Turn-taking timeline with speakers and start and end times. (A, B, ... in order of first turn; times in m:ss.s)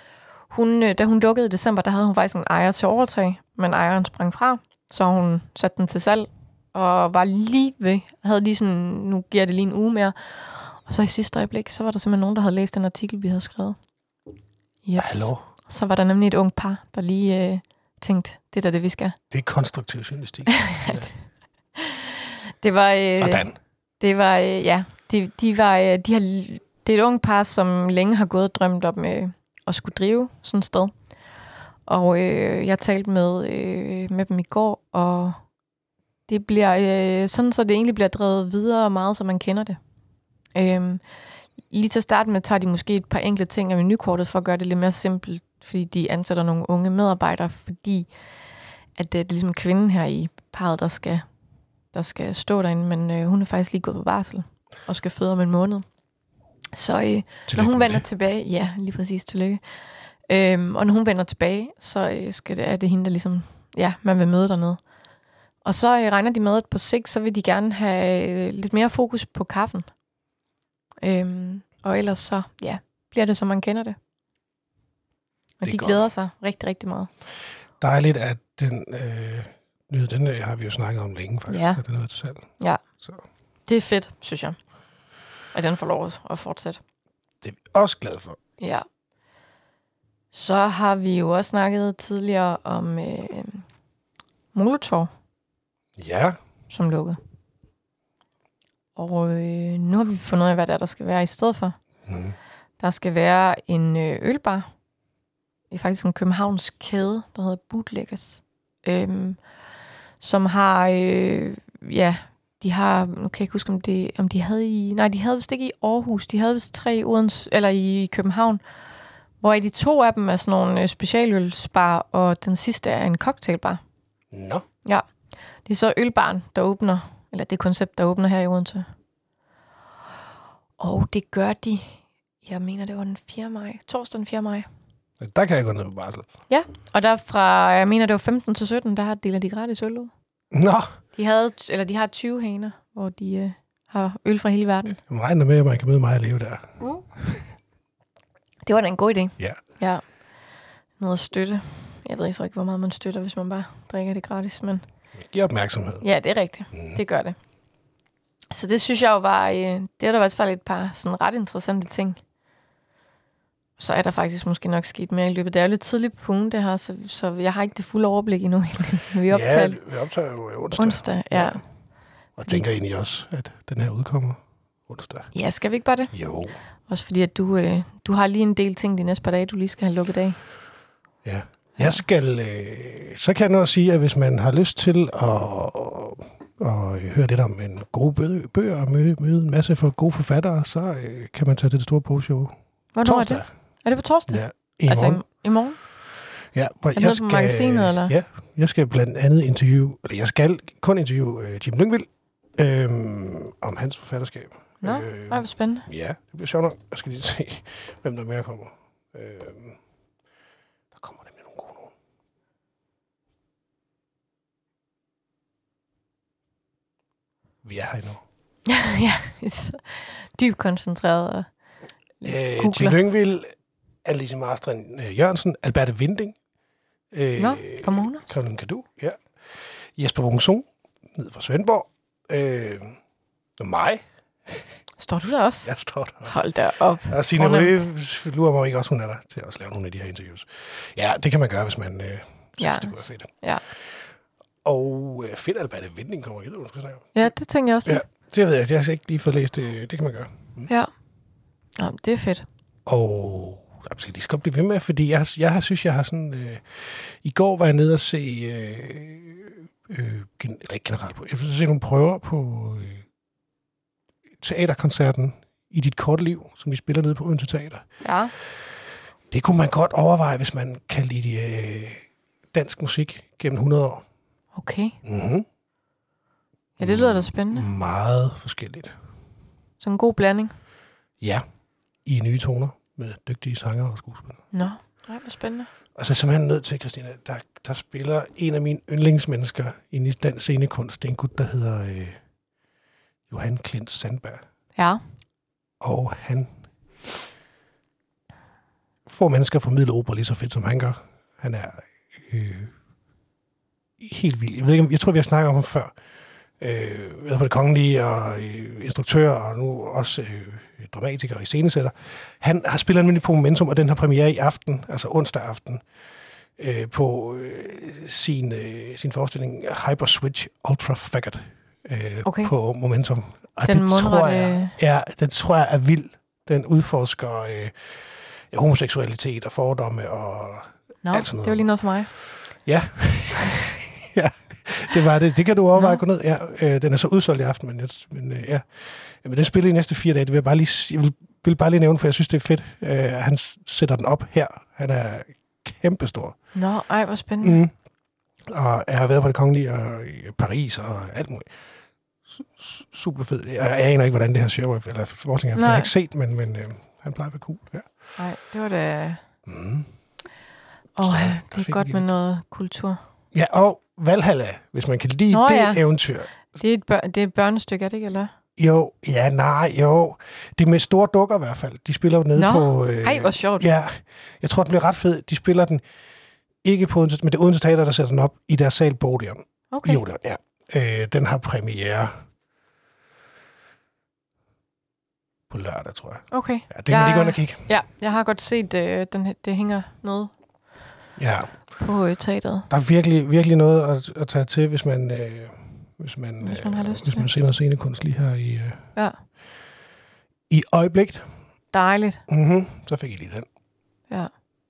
0:00.5-0:13.8 A
0:14.8-0:19.2 A
0:15.0-0:15.4 B
0:19.3-0:21.1 B
0:20.5-0:21.1 A
0:21.8-0:23.4 A
0:23.2-0:23.5 B
0:24.0-0:30.9 A
0:31.9-0:35.4 A
0:36.3-0:39.8 A
0:40.5-0:41.0 A
0:41.7-0:48.1 A
0:48.9-0:51.2 A
0:51.9-0:55.8 A
0:56.7-0:59.6 A
0:57.5-0:58.0 B
1:00.3-1:04.8 A
1:05.6-1:09.9 A
1:11.0-1:14.0 A
1:15.6-1:17.1 A
1:15.6-1:16.1 B
1:17.8-1:22.5 B
1:21.5-1:21.8 A
1:23.7-1:24.6 A
1:25.5-1:26.8 A
1:27.4-1:28.4 B
1:28.6-1:28.8 A
1:30.3-1:33.6 A
1:34.5-1:35.1 A
1:36.0-1:36.4 B
1:36.7-1:37.2 A
1:39.0-1:41.8 A
1:42.1-1:42.4 B
1:42.8-1:44.7 A
1:45.7-1:49.4 A
1:50.2-1:58.6 A
1:59.4-2:03.8 A
2:04.3-2:04.6 B
2:05.6-2:08.9 A
2:10.8-2:14.7 A
2:15.2-2:16.3 B
2:16.5-2:20.1 A
2:20.5-2:21.0 B
2:21.2-2:25.0 A
2:25.0-2:27.4 B
2:28.6-2:30.0 A
2:31.0-2:34.8 A
2:35.2-2:36.0 B
2:36.0-2:37.4 A
2:36.7-2:37.0 B
2:38.5-2:42.2 A
2:43.8-2:49.8 A
2:49.3-2:51.6 B
2:50.8-2:51.6 A
2:52.4-2:55.3 B
2:55.3-2:56.1 A
2:56.1-2:56.6 B
2:56.9-3:00.4 A
3:01.2-3:13.4 B
3:12.9-3:15.8 A
3:14.3-3:15.2 B
3:16.5-3:29.8 B
3:16.9-3:18.1 A
3:24.8-3:25.9 A
3:30.9-3:31.9 B
3:37.6-3:38.2 B
3:38.6-3:41.5 A
3:42.2-3:43.0 A
3:42.2-3:43.5 B
3:44.0-3:46.4 B
3:47.1-3:49.2 B
3:47.4-3:48.4 A
3:50.0-3:53.0 B
3:53.6-3:54.7 B
3:55.0-3:55.7 A
3:55.6-3:56.5 B
3:56.2-3:57.8 A
3:57.1-4:03.3 B
4:02.6-4:03.6 A
4:04.6-4:07.2 B
4:07.1-4:08.0 A
4:07.8-4:10.7 B
4:11.8-4:12.4 A
4:12.8-4:23.0 B
4:24.4-4:27.8 B
4:28.0-4:28.3 A
4:29.3-4:34.0 B
4:34.5-4:35.0 A
4:35.0-4:35.4 B
4:36.8-4:37.7 A
4:36.8-4:38.9 B
4:39.8-4:40.5 A
4:42.0-4:44.4 B
4:44.5-4:45.7 A
4:46.0-4:52.2 B
4:53.3-4:54.4 B
4:54.8-4:55.0 A
4:55.8-4:56.5 B
4:59.0-5:02.7 B
5:04.0-5:05.9 B
5:06.6-5:15.8 B
5:16.6-5:46.4 B
5:22.2-5:22.5 A
5:23.6-5:24.8 A
5:31.0-5:32.1 A
5:35.7-5:36.0 A
5:46.5-5:47.6 A
5:47.4-5:47.7 B
5:48.4-5:51.5 B
5:52.3-5:57.9 B
5:55.5-5:55.9 A
5:58.2-5:59.2 A
5:59.4-5:59.9 B
6:01.0-6:03.0 A
6:01.0-6:02.1 B
6:03.3-6:06.4 B
6:05.3-6:05.8 A
6:06.5-6:08.3 A
6:08.6-6:15.8 B
6:12.4-6:13.7 A
6:16.6-6:22.2 B
6:19.7-6:20.0 A
6:25.5-6:27.7 B
6:26.3-6:30.3 A
6:31.2-6:31.6 B
6:31.8-6:32.7 A
6:32.7-6:38.9 B
6:36.4-6:37.3 A
6:40.5-6:41.2 B
6:41.7-6:42.2 A
6:42.3-6:43.5 B